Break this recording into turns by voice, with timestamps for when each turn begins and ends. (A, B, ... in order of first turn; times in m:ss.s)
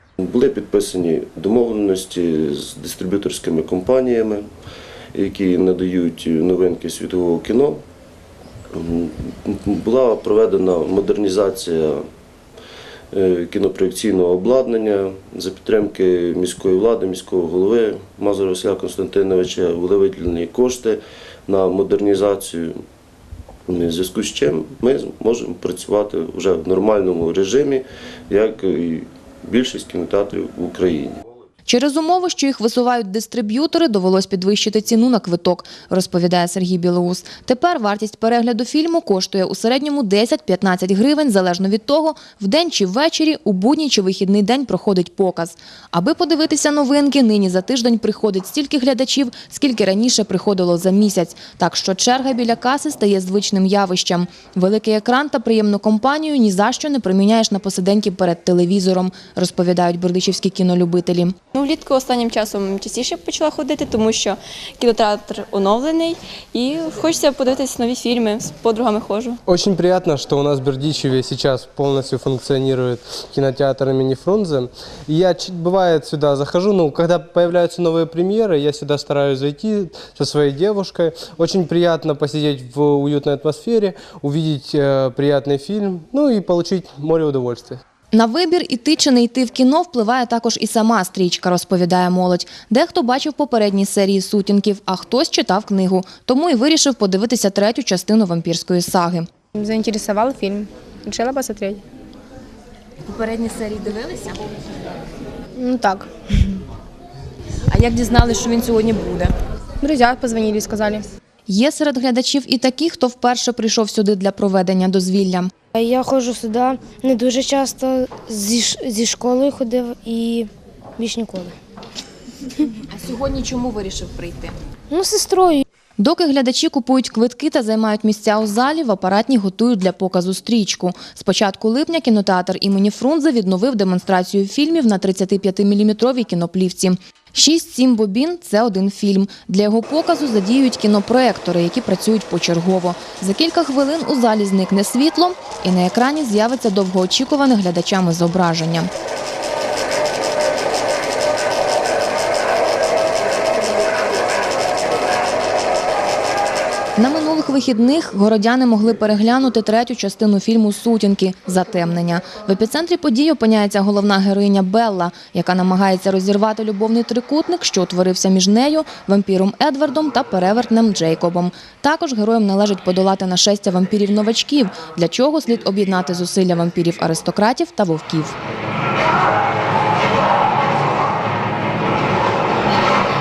0:00.2-0:04.5 A
0:05.2-0:07.8 A
0:08.7-0:12.0 A
0:13.1-0:22.8 A
0:23.7-0:31.2 A
0:31.7-1:01.3 B
1:01.6-1:09.4 C
1:09.5-1:27.8 D
1:28.1-1:39.3 B
1:39.6-1:41.8 E
1:43.1-1:44.4 B
1:45.6-1:46.1 E
1:47.7-1:49.3 B
1:49.8-1:51.1 E
1:51.5-1:55.5 B
1:55.7-2:01.6 F
2:02.7-2:04.5 B
2:04.9-2:05.6 F
2:06.0-2:28.9 B
2:37.0-2:58.4 B